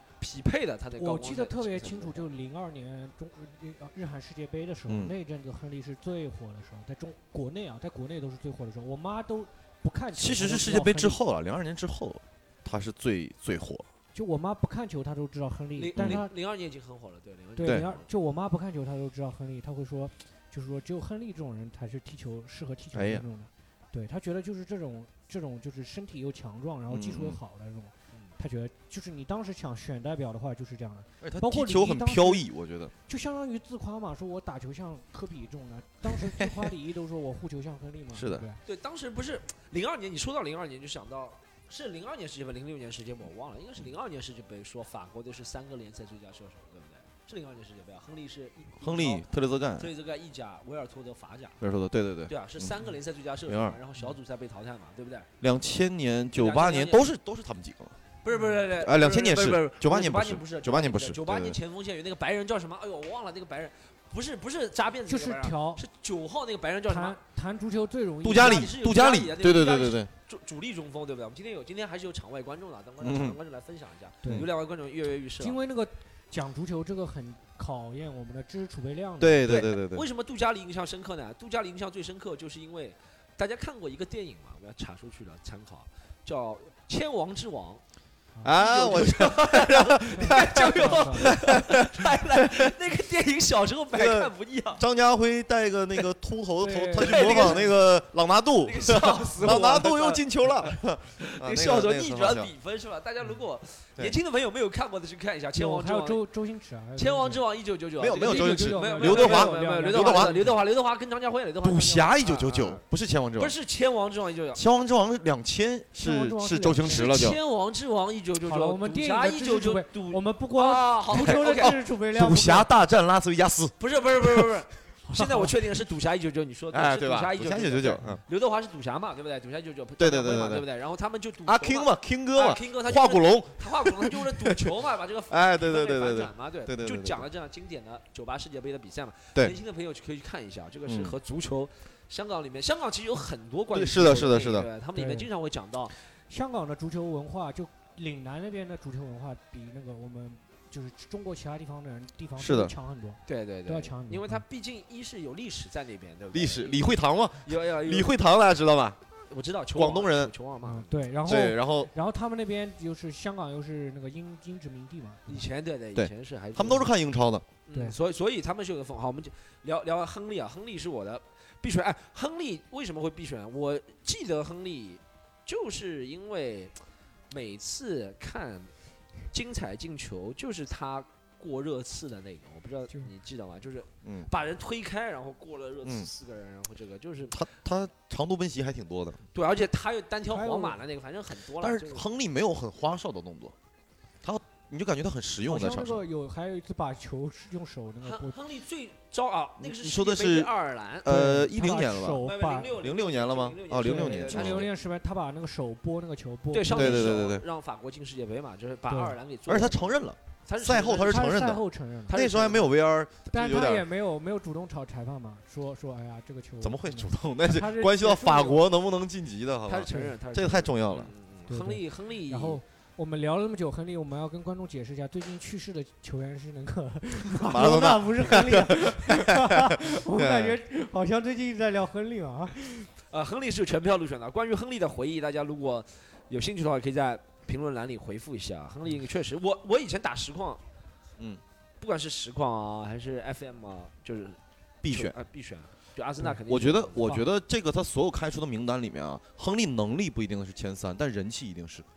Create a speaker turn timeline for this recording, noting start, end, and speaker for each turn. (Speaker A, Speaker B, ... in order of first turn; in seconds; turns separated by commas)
Speaker A: 0.2-2.2, Speaker B: 0.9-11.2, Speaker C: 4.9-5.1, Speaker C: 10.1-13.8, Speaker B: 14.1-16.3, Speaker A: 15.8-18.0, Speaker C: 16.0-16.2, Speaker B: 17.6-32.4, Speaker C: 22.9-23.2, Speaker C: 26.9-27.4, Speaker C: 31.2-32.9, Speaker B: 33.1-38.6, Speaker C: 36.3-36.5, Speaker C: 38.1-38.5, Speaker A: 38.6-49.2, Speaker C: 48.8-49.9, Speaker A: 49.8-51.6, Speaker C: 51.6-52.7, Speaker A: 52.3-55.3, Speaker C: 53.5-53.8, Speaker C: 55.4-58.0, Speaker A: 56.4-57.1, Speaker A: 58.2-67.2, Speaker B: 58.3-58.6, Speaker C: 58.8-61.6, Speaker B: 65.1-65.8, Speaker B: 66.9-68.6, Speaker C: 68.2-70.1, Speaker A: 68.2-75.6, Speaker C: 73.0-73.4, Speaker B: 75.4-79.5, Speaker C: 79.2-80.0, Speaker A: 79.5-87.8, Speaker C: 88.4-92.7, Speaker A: 88.6-94.8, Speaker B: 90.1-91.3, Speaker C: 93.9-102.5, Speaker B: 96.6-97.7, Speaker A: 97.0-97.7, Speaker A: 98.6-106.2, Speaker B: 105.5-107.4, Speaker A: 107.0-112.8, Speaker C: 108.0-110.5, Speaker B: 108.1-110.6, Speaker C: 111.6-113.5, Speaker A: 113.4-114.6, Speaker C: 114.5-117.4, Speaker B: 116.0-117.1, Speaker A: 116.8-121.8, Speaker B: 118.4-122.7, Speaker C: 121.1-124.6, Speaker A: 123.8-145.9, Speaker B: 125.1-125.5, Speaker C: 126.7-128.2, Speaker C: 130.0-130.7, Speaker C: 131.4-134.7, Speaker C: 135.3-137.3, Speaker C: 140.8-141.2, Speaker C: 143.7-144.7, Speaker B: 144.9-145.3, Speaker B: 146.3-154.4, Speaker C: 152.4-152.7, Speaker A: 153.3-158.1, Speaker C: 156.3-159.0, Speaker A: 159.3-161.1, Speaker C: 159.7-160.3, Speaker B: 160.7-165.4, Speaker C: 161.2-161.9, Speaker A: 165.3-166.9, Speaker C: 165.9-167.4, Speaker A: 167.7-176.7, Speaker A: 177.3-178.7, Speaker A: 179.3-187.4, Speaker C: 184.0-184.3, Speaker C: 187.3-189.2, Speaker A: 189.3-192.1, Speaker B: 190.3-190.8, Speaker C: 191.6-193.5, Speaker C: 194.2-196.0, Speaker B: 195.5-198.3, Speaker A: 198.0-201.1, Speaker C: 199.6-204.7, Speaker B: 201.1-202.7, Speaker A: 202.2-204.7, Speaker B: 203.8-207.2, Speaker A: 206.5-209.9, Speaker C: 206.7-207.4, Speaker B: 208.9-209.1, Speaker C: 209.5-213.8, Speaker A: 210.4-211.3, Speaker B: 210.9-212.2, Speaker A: 212.1-212.8, Speaker B: 213.3-218.7, Speaker C: 216.6-221.1, Speaker A: 219.7-222.6, Speaker B: 221.5-232.9, Speaker C: 227.3-230.6, Speaker A: 233.1-240.6, Speaker A: 241.8-247.2, Speaker C: 244.8-245.1, Speaker C: 246.5-251.8